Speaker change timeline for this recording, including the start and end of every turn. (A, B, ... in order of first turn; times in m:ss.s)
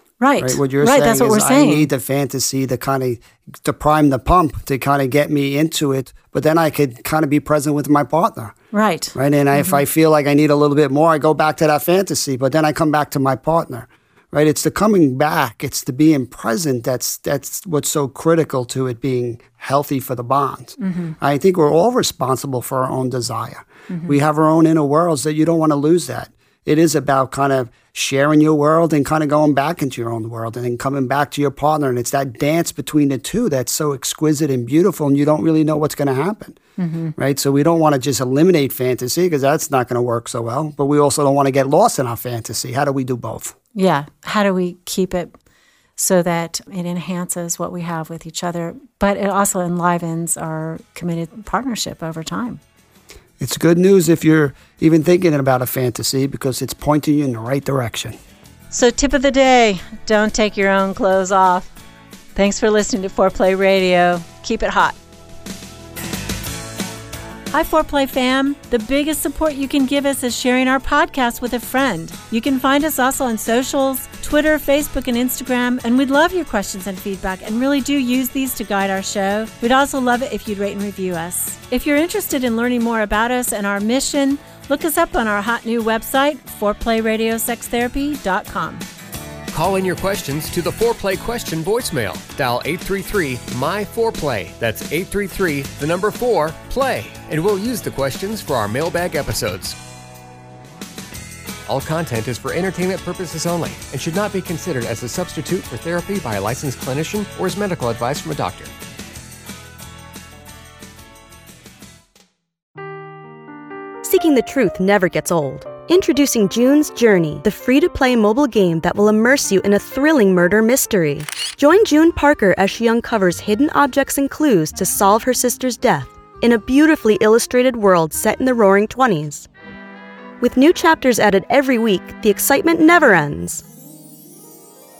0:00.2-0:01.9 A
0:00.4-0:08.5 B
0:08.7-0:09.8 A
0:09.1-0:36.6 B
0:20.8-0:21.1 A
0:23.9-0:24.2 A
0:36.8-0:37.1 A
0:37.2-0:43.6 B
0:43.7-0:45.3 A
0:46.0-0:52.6 A
0:53.4-0:58.2 B
0:58.7-1:01.7 A
1:02.3-1:05.0 A
1:07.5-1:28.8 A
1:29.5-1:39.8 C
1:41.6-1:48.7 C
1:54.0-2:09.5 D
2:10.4-2:13.6 D